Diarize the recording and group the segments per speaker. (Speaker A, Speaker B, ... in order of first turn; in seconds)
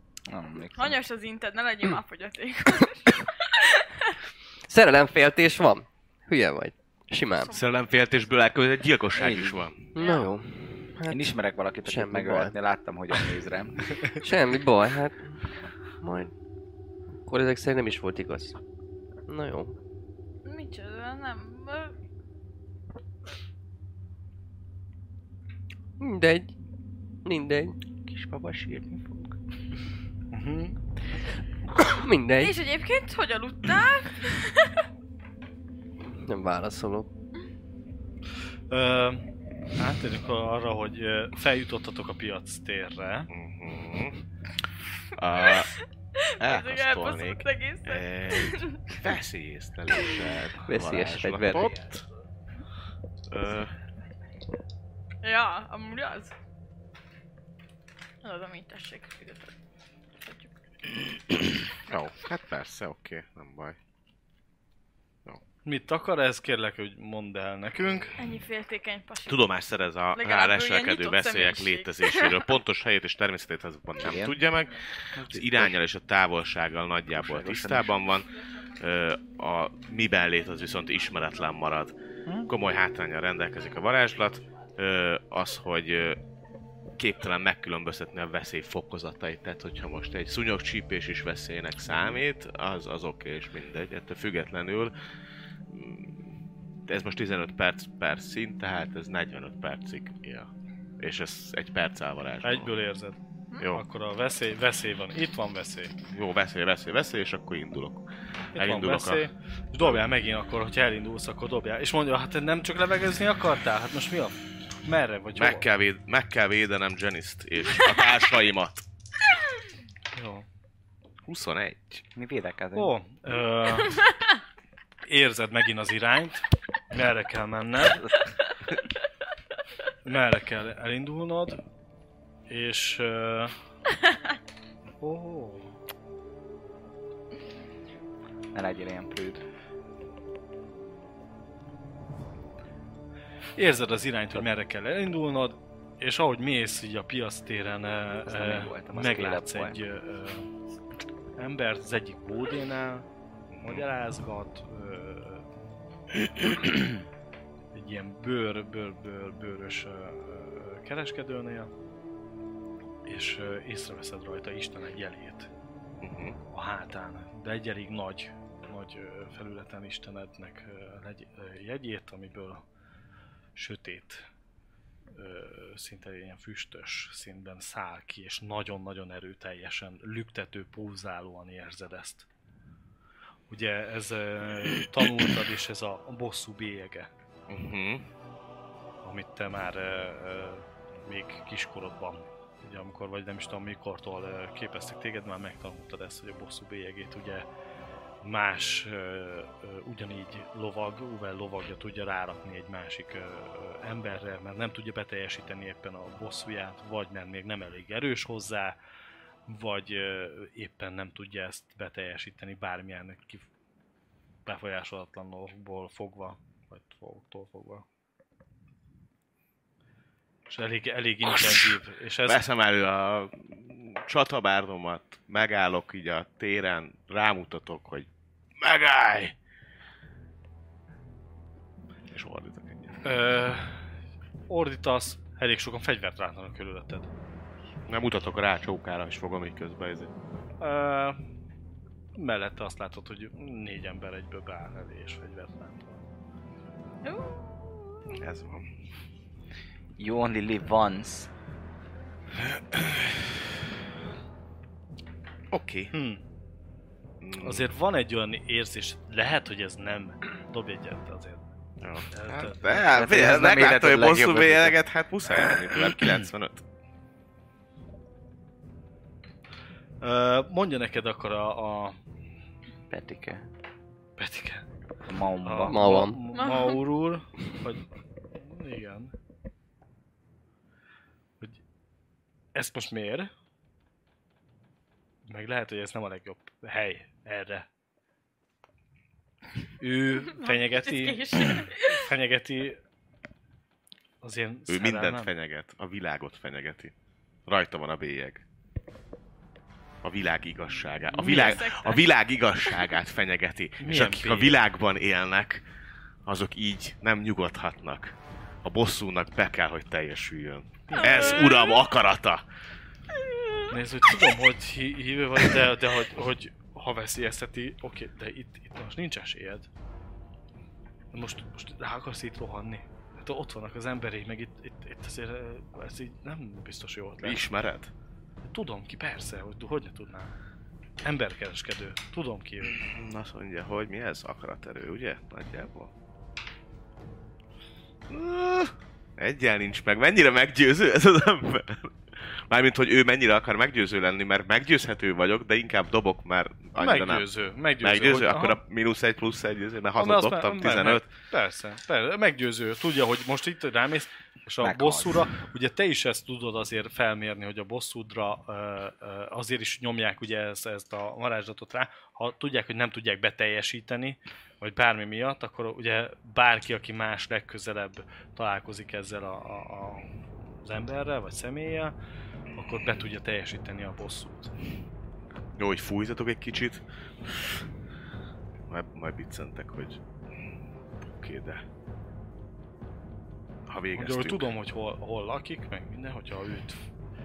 Speaker A: 0.3-1.0, 9.1-9.6, 11.1-13.8, 28.1-29.4, 74.0-74.4, 75.2-75.8, 77.1-78.0, 91.9-92.2, 122.1-123.0, 138.5-139.4, 148.2-149.8, 250.0-251.3, 262.9-264.8, 272.9-273.4, 275.1-275.9, 354.6-355.3
Speaker B: 0.7-4.1, 7.4-7.7, 9.9-10.3, 20.4-21.9, 32.4-34.8, 46.2-49.0, 55.2-56.3, 58.2-59.5, 60.2-60.5, 68.2-69.4, 70.1-72.5, 247.0-248.2, 276.3-276.8, 290.2-292.1, 301.2-302.1, 311.2-311.6
Speaker C: 4.7-7.5, 9.9-11.3, 11.8-12.6, 14.2-15.4, 16.0-16.3, 17.2-18.6, 19.3-19.8, 26.0-26.5, 27.2-27.8, 31.8-32.5, 36.0-37.1, 50.7-51.7, 275.6-276.2
Speaker D: 7.5-9.8, 43.3-44.2, 45.1-45.7, 46.4-52.0, 53.3-53.7, 61.3-63.8, 69.3-81.9, 82.5-86.2, 87.0-94.9, 95.7-102.7, 103.6-103.8, 106.1-109.2, 115.3-118.8, 121.2-122.0, 166.0-166.4, 187.5-188.1, 222.2-228.1, 228.6-229.3, 232.1-233.0, 237.9-240.1, 248.1-248.7, 252.3-253.3, 255.5-255.9, 257.2-257.7, 261.8-266.6, 294.7-296.9, 297.4-298.4, 300.0-305.6, 306.2-312.4, 327.2-327.9, 332.8-335.9, 338.1-347.3, 347.8-351.1, 375.6-377.5, 378.7-380.0, 381.0-381.6, 383.7-384.5
Speaker E: 30.3-30.8, 38.7-43.3, 65.6-68.2, 102.4-103.2, 103.7-105.9, 108.5-115.7, 120.1-120.5, 122.7-124.0, 125.1-128.1, 130.0-131.6, 132.5-133.5, 135.0-135.7, 143.6-150.5, 151.3-153.1, 153.6-155.5, 156.5-156.8, 157.7-161.7, 163.1-165.5, 166.5-172.6, 173.5-174.3, 175.1-182.3, 183.5-187.1, 189.0-197.4, 198.2-208.8, 209.5-213.4, 214.4-217.8, 220.5-222.4, 233.0-233.8, 234.5-237.1, 240.6-241.2, 242.1-246.0, 255.9-256.2, 257.4-261.5, 262.1-262.9, 270.0-272.0, 274.2-274.6, 275.4-279.1, 282.5-283.3, 285.2-287.7, 289.8-292.8, 294.2-295.3, 301.1-301.6, 303.8-304.6, 310.9-311.5, 313.7-319.7, 321.1-327.4, 328.4-330.3, 331.0-332.8, 346.8-348.6, 349.9-371.9, 372.5-374.5, 383.9-386.8